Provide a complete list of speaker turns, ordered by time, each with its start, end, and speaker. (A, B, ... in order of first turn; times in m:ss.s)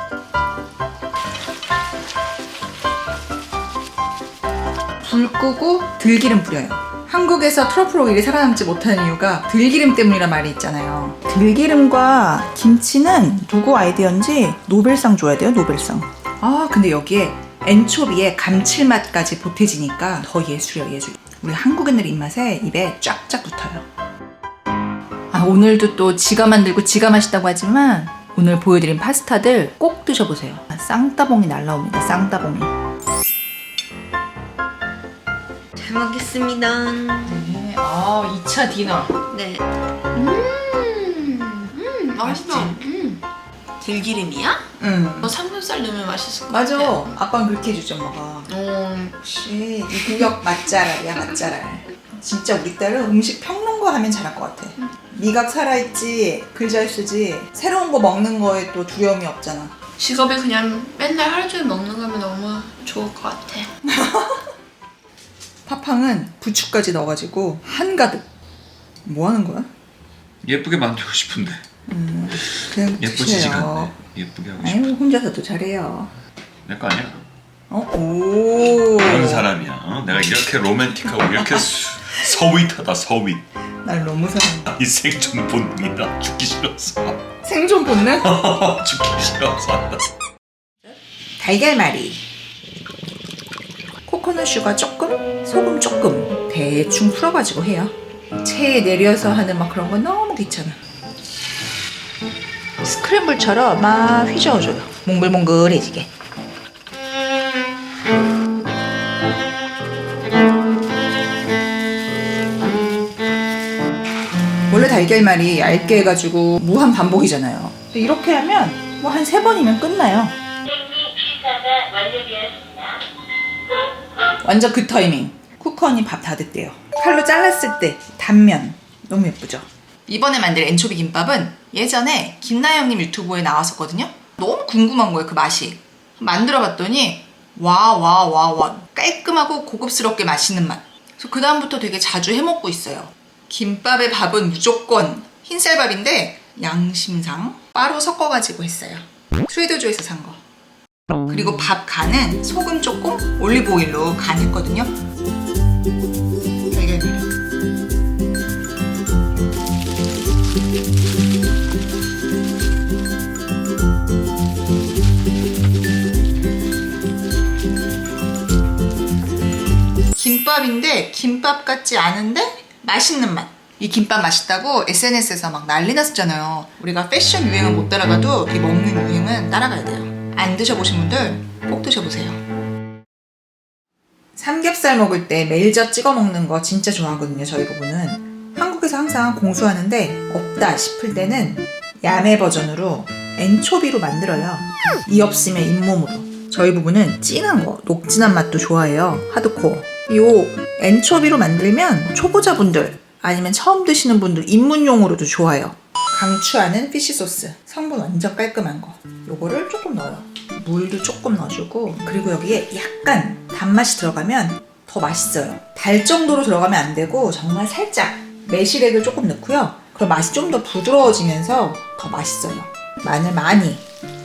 0:05.0-0:23.9 A
0:25.3-0:32.7 A
0:35.8-0:37.4 B
0:37.2-0:39.2 A
0:39.3-0:43.2 B
0:42.2-0:42.8 A
0:43.8-0:44.7 B
0:44.8-0:45.3 A
0:45.2-0:47.1 B
0:46.5-0:48.5 A
0:48.5-0:49.2 B
0:49.2-0:59.8 A
0:50.0-0:50.3 B
1:00.0-1:03.7 B
1:03.9-1:04.4 A
1:05.7-1:08.2 A
1:09.0-1:09.7 A
1:10.4-1:11.6 C
1:11.9-1:13.9 A
1:12.4-1:14.8 C
1:14.6-1:16.1 A
1:16.6-1:17.2 C
1:17.7-1:19.5 A
1:18.9-1:23.4 C
1:21.2-1:21.7 A
1:23.8-1:24.8 A
1:24.7-1:27.2 C
1:27.4-1:28.3 A
1:28.0-1:30.1 C
1:31.4-1:32.2 A
1:34.1-1:40.8 A
1:42.8-1:46.1 A
1:54.7-2:00.4 A
2:04.4-2:30.4 A
2:31.3-2:34.9 A
2:36.7-2:37.2 A
2:50.2-3:02.4 A
3:04.4-3:43.9 A